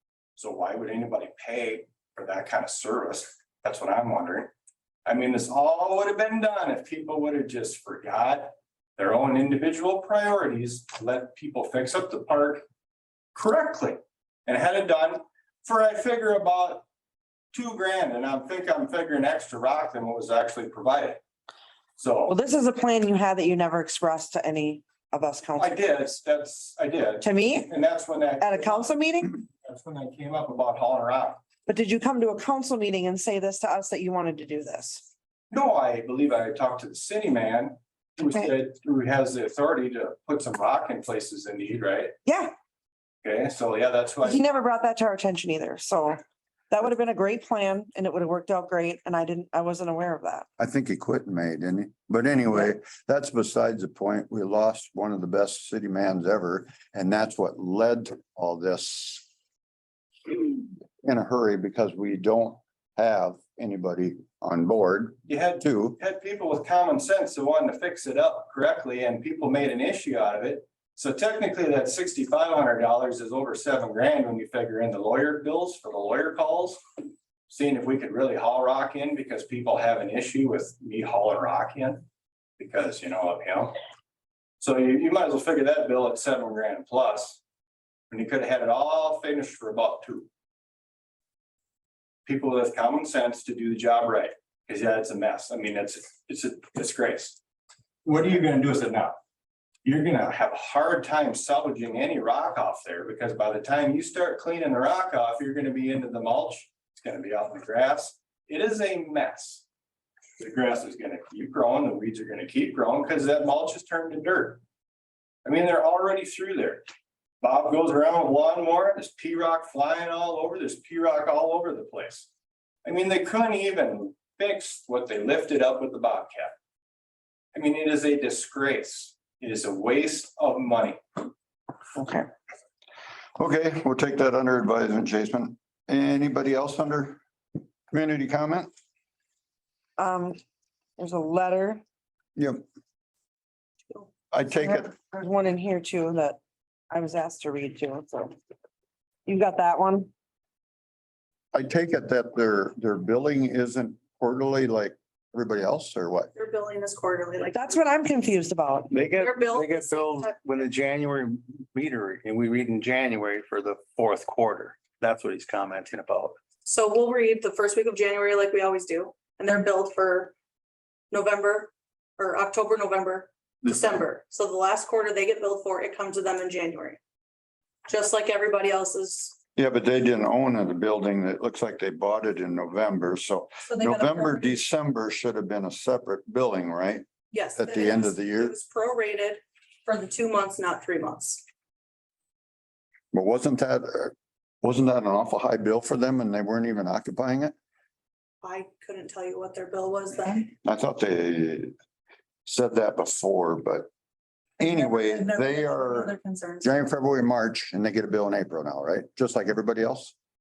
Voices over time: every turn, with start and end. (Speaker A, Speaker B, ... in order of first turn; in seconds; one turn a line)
Speaker A: 0.3-4.5
Speaker A: 5.0-12.6
Speaker A: 13.3-16.8
Speaker A: 17.5-21.2
Speaker A: 22.0-22.4
Speaker B: 22.3-25.8
Speaker A: 25.6-31.4
Speaker B: 27.2-27.7
Speaker B: 28.4-29.3
Speaker B: 31.7-35.1
Speaker A: 35.5-42.1
Speaker B: 42.2-42.5
Speaker A: 43.2-44.5
Speaker B: 44.2-46.2
Speaker B: 46.7-50.5
Speaker C: 50.6-59.3
Speaker C: 60.2-66.0
Speaker A: 65.3-76.8
Speaker A: 77.5-82.0
Speaker A: 82.6-83.8
Speaker A: 84.6-87.4
Speaker A: 88.1-90.3
Speaker A: 92.2-97.4
Speaker A: 98.0-99.2
Speaker A: 99.8-109.6
Speaker A: 110.4-114.6
Speaker A: 115.4-116.8
Speaker A: 117.4-122.3
Speaker A: 122.8-126.5
Speaker A: 127.5-131.0
Speaker B: 131.9-132.3
Speaker C: 133.4-137.2
Speaker C: 137.9-138.7
Speaker B: 140.0-140.4
Speaker B: 141.0-141.8
Speaker C: 142.3-142.6
Speaker C: 144.3-144.9
Speaker B: 144.6-146.4
Speaker B: 146.9-148.3
Speaker B: 149.2-150.1
Speaker C: 151.5-156.3
Speaker D: 156.3-157.7
Speaker B: 157.5-158.9
Speaker E: 158.9-166.3
Speaker D: 159.1-160.3
Speaker D: 166.6-170.3
Speaker D: 171.1-177.0
Speaker D: 177.9-179.4
Speaker C: 179.6-187.0
Speaker D: 183.7-184.5
Speaker D: 187.3-191.4
Speaker C: 187.6-188.5
Speaker C: 193.1-197.5
Speaker D: 198.4-200.5
Speaker C: 200.6-201.7
Speaker C: 202.4-203.9
Speaker D: 204.6-206.8
Speaker C: 204.6-210.1